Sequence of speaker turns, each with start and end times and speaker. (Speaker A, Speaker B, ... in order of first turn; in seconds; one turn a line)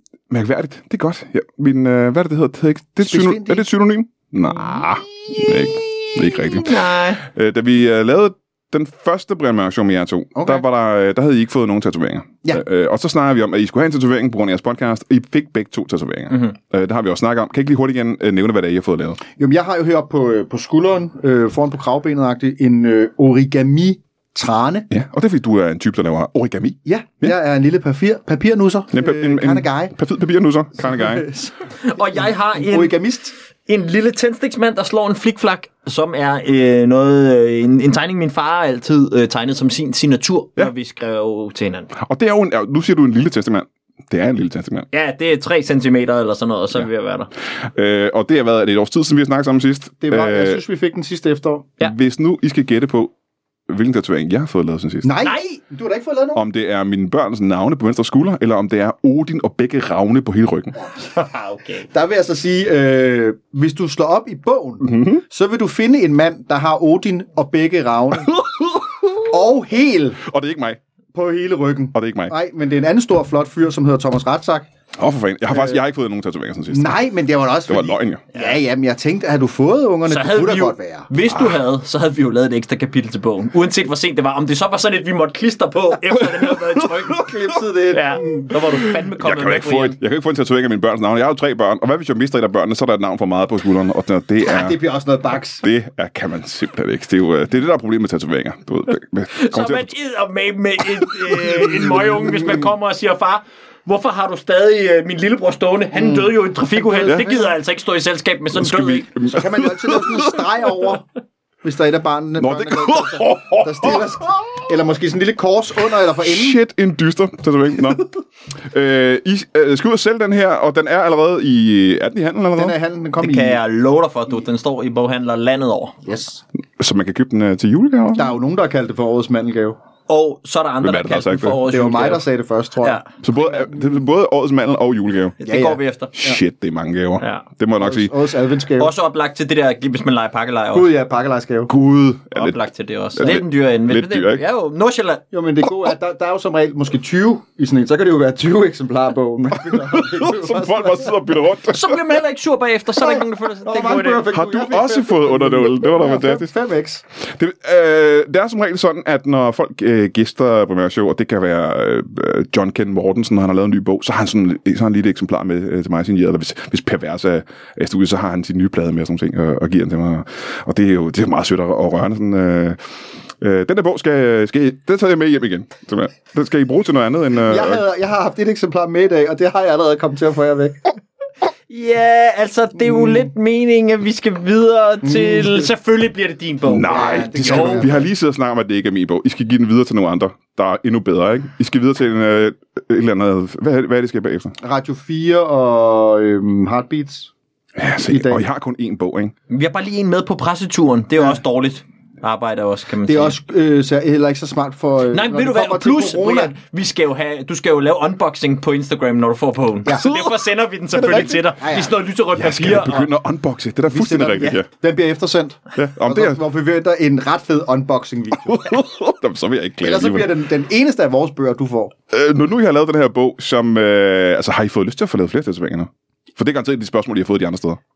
Speaker A: 0.3-19.2
Speaker B: 3.0-3.7
Speaker C: 6.3-7.2
Speaker B: 10.3-10.6
Speaker B: 19.3-24.9
Speaker A: 24.9-27.3
Speaker B: 26.9-29.9
Speaker A: 28.9-31.3
Speaker B: 30.8-33.3
Speaker C: 31.8-33.0
Speaker C: 33.7-41.9
Speaker A: 42.0-44.9
Speaker C: 44.9-47.3
Speaker A: 47.6-50.6
Speaker B: 50.0-51.7
Speaker A: 51.8-53.1
Speaker A: 53.7-55.1
Speaker B: 55.0-56.4
Speaker A: 56.4-60.8
Speaker B: 60.8-61.1
Speaker C: 61.0-61.9
Speaker B: 61.9-68.4
Speaker A: 64.8-65.2
Speaker B: 69.2-70.2
Speaker A: 70.2-70.8
Speaker B: 71.1-74.7
Speaker A: 71.9-72.3
Speaker A: 75.0-77.0
Speaker B: 76.7-81.1
Speaker A: 77.7-78.2
Speaker C: 78.3-78.6
Speaker C: 80.1-87.3
Speaker B: 87.1-88.6
Speaker C: 87.9-90.0
Speaker A: 89.2-94.8
Speaker B: 94.4-95.7
Speaker A: 95.6-99.9
Speaker C: 99.3-109.1
Speaker B: 101.5-102.7
Speaker B: 105.9-107.5
Speaker A: 107.1-107.4
Speaker A: 108.5-110.9
Speaker B: 109.3-111.0
Speaker B: 111.6-116.6
Speaker A: 112.4-114.1
Speaker A: 116.2-122.8
Speaker B: 122.6-123.6
Speaker C: 123.2-126.0
Speaker B: 126.0-126.4
Speaker A: 126.8-128.3
Speaker B: 128.2-129.8
Speaker C: 130.1-132.2
Speaker A: 130.8-131.6
Speaker B: 131.7-133.0
Speaker C: 132.8-133.1
Speaker A: 133.2-135.4
Speaker C: 135.4-136.1
Speaker B: 135.4-136.4
Speaker A: 136.1-138.1
Speaker C: 137.2-137.4
Speaker B: 137.8-138.9
Speaker C: 138.8-140.9
Speaker B: 140.7-141.7
Speaker A: 141.7-142.6
Speaker C: 142.3-145.2
Speaker A: 143.1-144.4
Speaker B: 145.3-151.2
Speaker A: 149.6-152.0
Speaker C: 151.7-154.3
Speaker B: 153.0-157.0
Speaker A: 154.3-156.5
Speaker A: 157.3-172.8
Speaker A: 173.4-177.8
Speaker B: 177.4-180.8
Speaker C: 181.7-187.9
Speaker B: 182.8-183.2
Speaker B: 185.0-185.7
Speaker A: 186.7-194.6
Speaker B: 186.9-188.1
Speaker B: 194.6-197.3
Speaker A: 197.8-199.3
Speaker B: 198.0-198.4
Speaker C: 199.5-203.4
Speaker B: 203.1-206.5
Speaker C: 205.1-213.1
Speaker B: 209.8-210.2
Speaker A: 210.9-211.4
Speaker B: 211.1-211.9
Speaker A: 212.3-214.7
Speaker B: 213.9-218.8
Speaker A: 215.8-216.4
Speaker A: 218.4-220.3
Speaker B: 219.8-221.9
Speaker A: 222.1-227.8